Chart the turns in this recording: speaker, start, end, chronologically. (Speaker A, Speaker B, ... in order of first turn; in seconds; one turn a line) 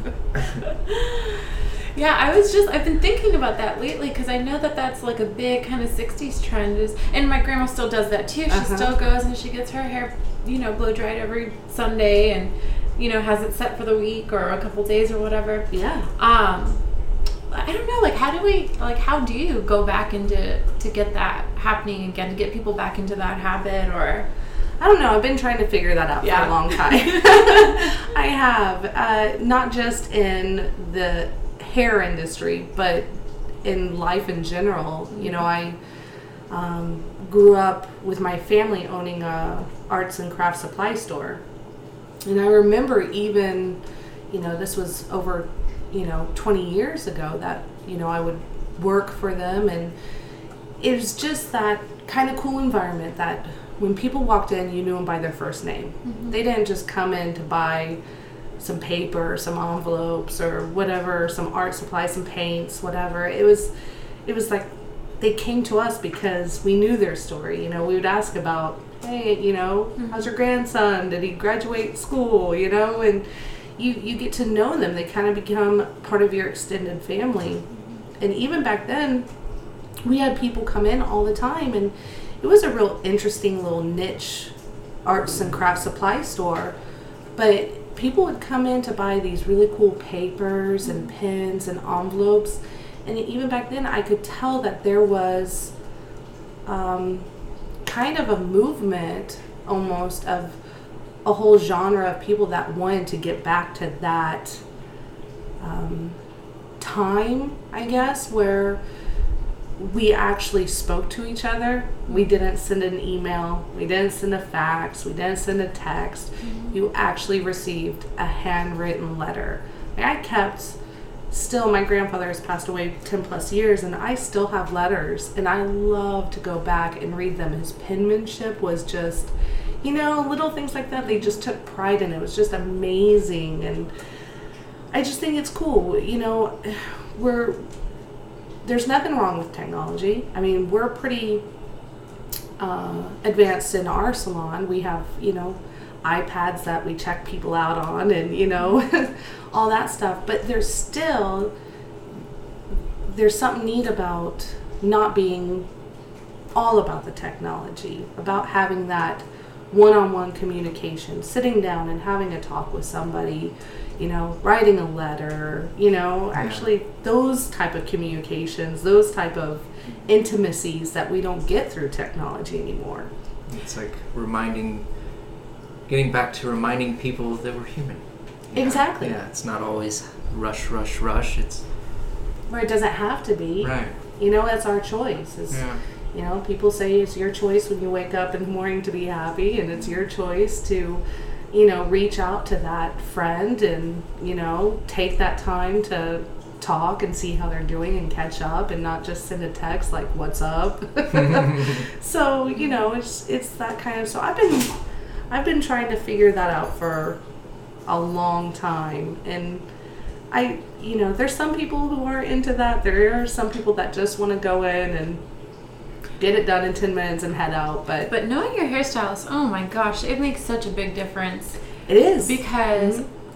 Speaker A: 0.9-16.8
Speaker B: 8.5-8.9
Speaker B: 15.7-16.1
Speaker A: 17.5-24.3
Speaker B: 24.8-33.1
Speaker A: 26.2-27.9
Speaker B: 33.6-35.8
Speaker B: 36.5-41.4
Speaker B: 42.2-43.8
Speaker B: 44.3-49.9
Speaker B: 50.8-58.0
Speaker A: 56.0-56.3
Speaker B: 58.6-63.7
Speaker B: 64.3-64.7
Speaker B: 65.2-73.2
Speaker B: 73.8-77.7
Speaker B: 78.2-79.3
Speaker B: 80.0-84.5
Speaker B: 85.0-86.8
Speaker B: 87.4-95.7
Speaker B: 96.7-97.3
Speaker B: 97.8-100.6
Speaker B: 101.2-104.6
Speaker B: 105.6-106.2
Speaker B: 106.8-108.8
Speaker B: 109.8-120.8
Speaker A: 116.4-116.7
Speaker B: 121.3-129.3
Speaker B: 129.8-133.9
Speaker B: 134.9-137.6
Speaker B: 138.6-141.4
Speaker B: 142.6-151.5
Speaker B: 153.1-155.7
Speaker B: 156.6-173.1
Speaker C: 166.3-166.7
Speaker C: 173.5-174.9
Speaker C: 175.9-181.6
Speaker B: 178.6-179.2
Speaker B: 182.5-204.8
Speaker C: 183.6-183.9
Speaker C: 185.5-185.8
Speaker B: 205.3-207.2
Speaker B: 207.9-209.7
Speaker B: 210.3-215.2
Speaker B: 216.2-218.1
Speaker A: 218.1-223.1
Speaker B: 221.9-223.1